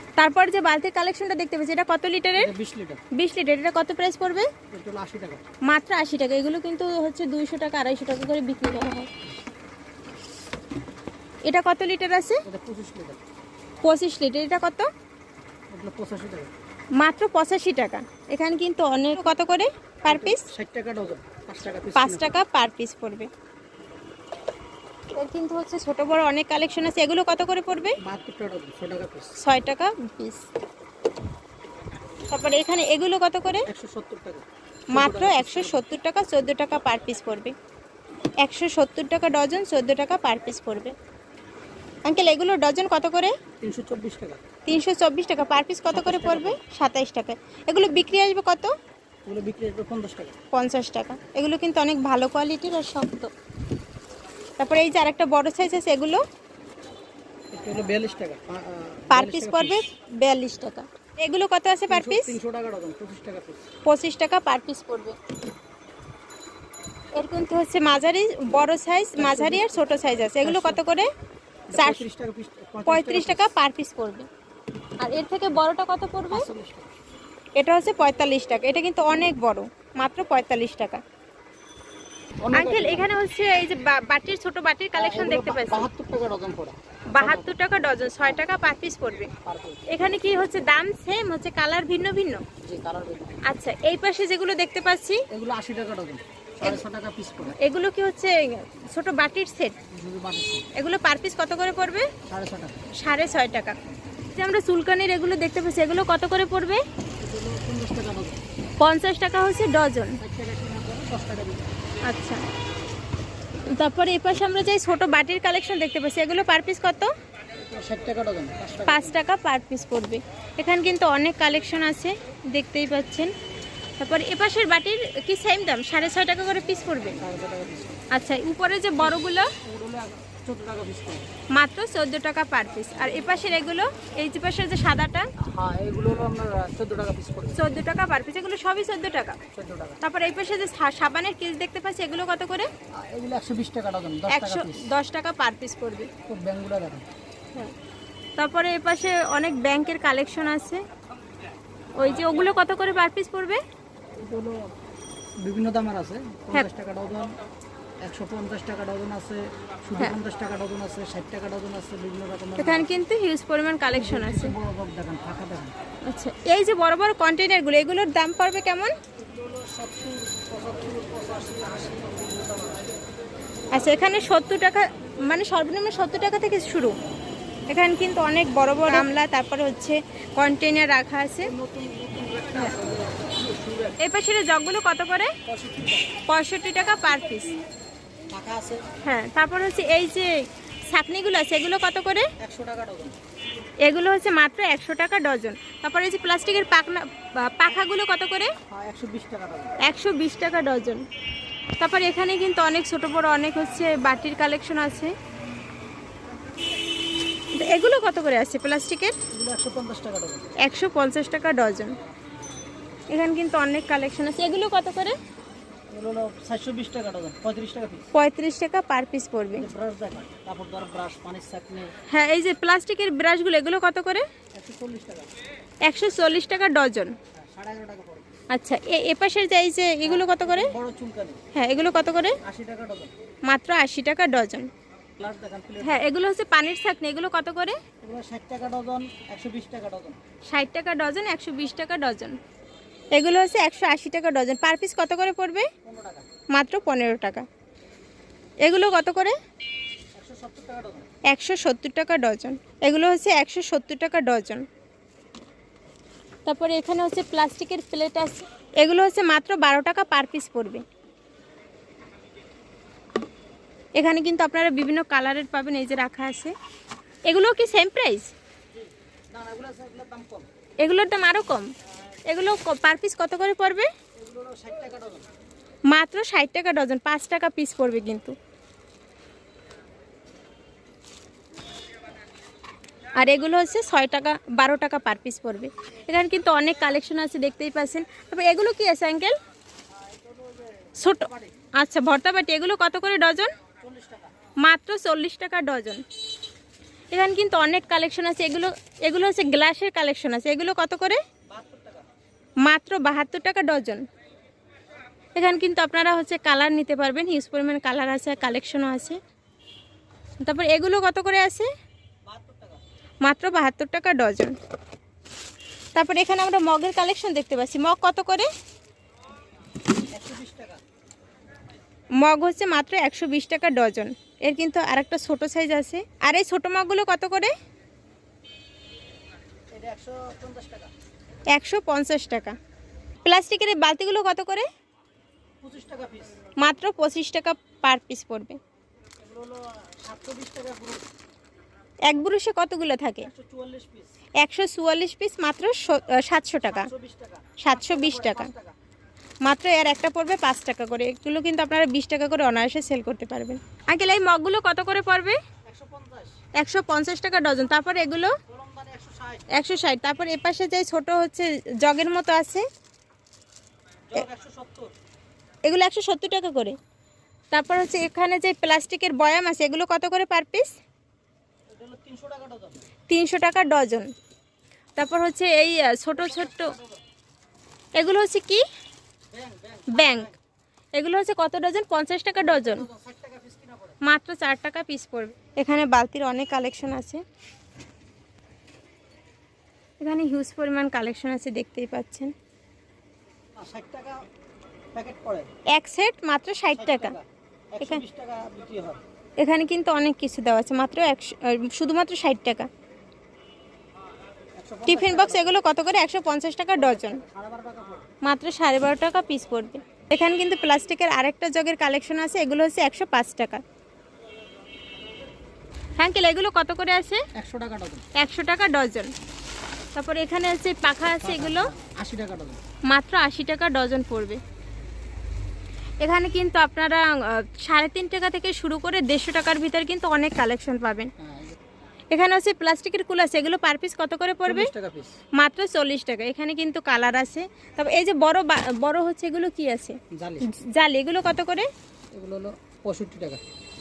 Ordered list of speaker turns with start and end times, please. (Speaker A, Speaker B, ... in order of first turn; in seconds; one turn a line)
Speaker A: 0.2-2.5
Speaker B: 2.4-3.0
Speaker A: 3.1-4.5
Speaker B: 4.7-5.4
Speaker A: 5.7-9.1
Speaker A: 11.5-12.4
Speaker B: 12.4-13.2
Speaker A: 13.8-14.9
Speaker B: 15.7-16.5
Speaker A: 17.0-20.5
Speaker B: 20.1-22.3
Speaker A: 22.0-23.3
Speaker A: 25.1-28.0
Speaker B: 28.0-29.3
Speaker A: 29.4-30.4
Speaker A: 32.3-33.7
Speaker B: 33.7-35.9
Speaker A: 34.9-37.5
Speaker A: 38.4-41.0
Speaker A: 42.0-43.4
Speaker B: 43.6-44.4
Speaker A: 44.7-48.7
Speaker B: 45.9-46.6
Speaker B: 49.3-50.4
Speaker A: 50.5-53.3
Speaker A: 54.6-56.2
Speaker B: 57.5-59.8
Speaker A: 59.1-62.4
Speaker B: 61.9-63.6
Speaker A: 63.9-65.2
Speaker A: 67.2-71.1
Speaker B: 69.2-70.8
Speaker B: 71.7-73.5
Speaker A: 71.7-72.0
Speaker A: 72.9-74.3
Speaker A: 75.0-76.5
Speaker B: 76.3-76.9
Speaker A: 77.6-81.0
Speaker B: 82.4-83.1
Speaker A: 82.5-85.9
Speaker B: 85.0-87.6
Speaker A: 87.1-89.3
Speaker B: 89.5-89.8
Speaker A: 89.9-92.5
Speaker B: 92.6-93.4
Speaker A: 93.4-95.2
Speaker B: 95.3-97.6
Speaker A: 97.6-99.8
Speaker B: 99.9-100.7
Speaker A: 100.8-102.1
Speaker B: 102.3-102.8
Speaker A: 103.0-103.8
Speaker A: 104.3-106.8
Speaker B: 107.2-108.4
Speaker A: 108.8-110.2
Speaker B: 110.2-111.7
Speaker A: 112.1-112.4
Speaker A: 113.7-117.1
Speaker B: 117.6-119.2
Speaker A: 118.9-123.3
Speaker A: 124.0-127.2
Speaker B: 127.2-128.0
Speaker A: 128.1-129.5
Speaker B: 129.6-131.3
Speaker A: 131.5-135.3
Speaker B: 135.4-137.7
Speaker A: 137.6-139.4
Speaker B: 139.5-140.0
Speaker A: 140.0-142.7
Speaker B: 142.9-144.9
Speaker A: 144.3-146.1
Speaker B: 146.3-147.1
Speaker A: 148.4-150.8
Speaker A: 152.0-153.6
Speaker B: 154.2-154.7
Speaker B: 155.4-157.4
Speaker B: 158.0-162.9
Speaker A: 162.6-164.6
Speaker B: 163.9-165.8
Speaker A: 166.1-168.9
Speaker B: 169.2-172.8
Speaker A: 173.7-176.9
Speaker A: 177.7-181.5
Speaker B: 181.4-184.0
Speaker A: 184.0-185.3
Speaker B: 185.4-186.2
Speaker A: 186.3-187.5
Speaker B: 188.3-188.8
Speaker A: 189.0-192.3
Speaker B: 192.4-193.2
Speaker A: 193.8-198.5
Speaker B: 198.7-199.8
Speaker A: 199.8-201.0
Speaker A: 201.8-205.2
Speaker A: 207.5-209.2
Speaker B: 209.3-210.5
Speaker A: 210.6-212.0
Speaker A: 213.1-215.2
Speaker B: 215.9-218.1
Speaker A: 218.1-219.7
Speaker B: 219.6-221.9
Speaker A: 222.1-224.3
Speaker B: 224.6-225.3
Speaker A: 225.8-227.2
Speaker B: 227.3-228.3
Speaker A: 228.5-230.7
Speaker B: 230.1-231.4
Speaker A: 231.5-232.4
Speaker B: 232.4-233.1
Speaker A: 233.5-234.7
Speaker B: 235.2-236.1
Speaker A: 235.8-237.8
Speaker B: 238.0-240.2
Speaker A: 240.5-242.4
Speaker A: 243.1-245.7
Speaker B: 245.8-246.3
Speaker A: 246.5-247.5
Speaker A: 248.6-249.4
Speaker B: 250.2-251.1
Speaker A: 251.3-254.7
Speaker A: 256.5-260.8
Speaker A: 264.0-266.5
Speaker A: 267.3-268.3
Speaker B: 268.7-270.5
Speaker A: 270.8-271.7
Speaker A: 272.3-273.9
Speaker B: 274.2-275.3
Speaker A: 275.9-278.4
Speaker A: 283.2-289.4
Speaker B: 289.9-291.6
Speaker A: 291.0-293.5
Speaker B: 293.8-294.3
Speaker A: 294.6-296.0
Speaker A: 297.1-301.2
Speaker B: 301.5-302.1
Speaker A: 302.6-304.1
Speaker A: 305.4-309.2
Speaker A: 310.4-311.7
Speaker B: 312.3-312.8
Speaker A: 313.2-314.6
Speaker A: 315.9-318.5
Speaker B: 320.1-320.8
Speaker A: 322.2-327.5
Speaker B: 329.7-330.9
Speaker A: 331.5-332.6
Speaker A: 333.2-334.7
Speaker B: 335.6-336.3
Speaker A: 336.6-338.6
Speaker B: 339.2-341.1
Speaker A: 342.1-343.3
Speaker B: 343.2-344.1
Speaker A: 344.4-346.9
Speaker B: 346.7-348.8
Speaker A: 347.6-348.5
Speaker A: 349.4-355.4
Speaker B: 355.6-356.4
Speaker A: 356.6-358.4
Speaker B: 358.5-359.6
Speaker A: 359.5-362.7
Speaker B: 364.1-364.9
Speaker A: 365.6-366.8
Speaker A: 367.5-370.8
Speaker B: 371.7-372.8
Speaker A: 373.1-374.1
Speaker A: 375.0-376.8
Speaker B: 376.1-377.0
Speaker A: 378.0-378.6
Speaker B: 379.3-380.4
Speaker A: 379.9-380.3
Speaker A: 381.0-382.9
Speaker B: 382.4-384.0
Speaker A: 384.0-387.2
Speaker A: 390.0-392.3
Speaker B: 393.6-394.3
Speaker B: 394.9-395.5
Speaker A: 395.7-397.2
Speaker B: 396.7-399.0
Speaker A: 399.4-402.7
Speaker B: 404.6-405.5
Speaker A: 404.9-407.2
Speaker B: 406.8-408.1
Speaker A: 408.2-413.6
Speaker A: 416.0-417.2
Speaker B: 417.4-418.1
Speaker A: 418.1-419.1
Speaker A: 419.9-421.7
Speaker B: 421.2-422.6
Speaker A: 422.9-424.4
Speaker A: 426.0-431.1
Speaker B: 431.2-431.6
Speaker A: 432.1-434.7
Speaker B: 434.5-435.1
Speaker A: 435.4-440.0
Speaker B: 440.1-440.5
Speaker A: 440.5-441.7
Speaker B: 442.1-443.4